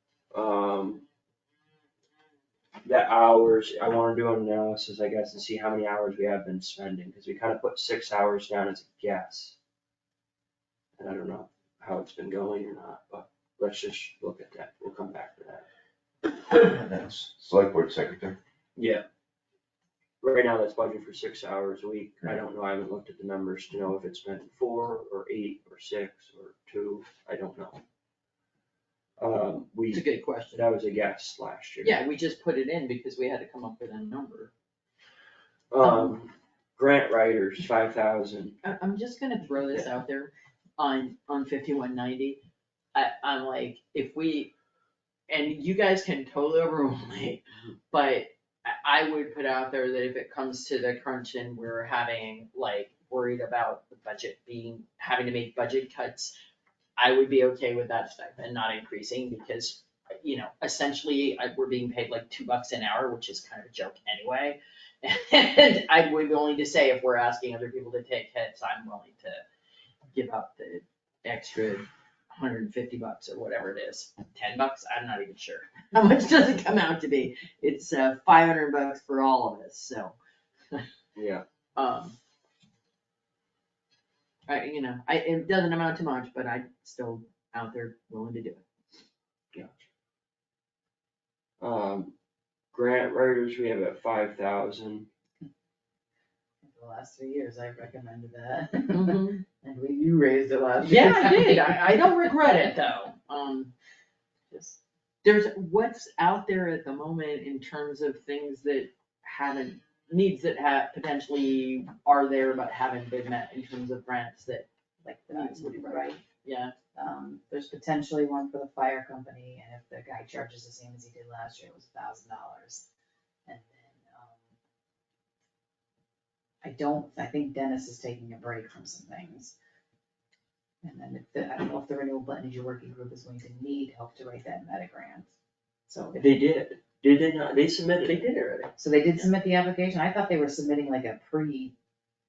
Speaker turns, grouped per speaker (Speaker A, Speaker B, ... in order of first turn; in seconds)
Speaker A: 0.3-1.1, 2.8-9.6, 11.0-15.7, 18.8-19.0, 20.2-27.8, 29.2-32.0, 35.7-38.6, 81.2-81.4, 89.5-89.8, 91.6-92.1, 92.7-95.1, 136.2-138.3
Speaker B: 16.3-18.4
Speaker C: 29.9-30.6, 31.8-34.5, 35.8-36.1, 38.6-42.4, 43.0-44.5, 45.3-56.4, 57.0-69.4, 70.1-80.2, 81.8-82.2, 84.5-88.7, 98.9-99.4, 100.8-103.7, 105.2-114.7, 115.3-116.7, 138.1-138.7
Speaker D: 96.6-102.7, 104.5-104.8, 115.0-116.2, 116.9-122.9, 123.5-124.4, 126.6-129.6, 130.8-135.3, 135.9-136.4, 138.8-141.7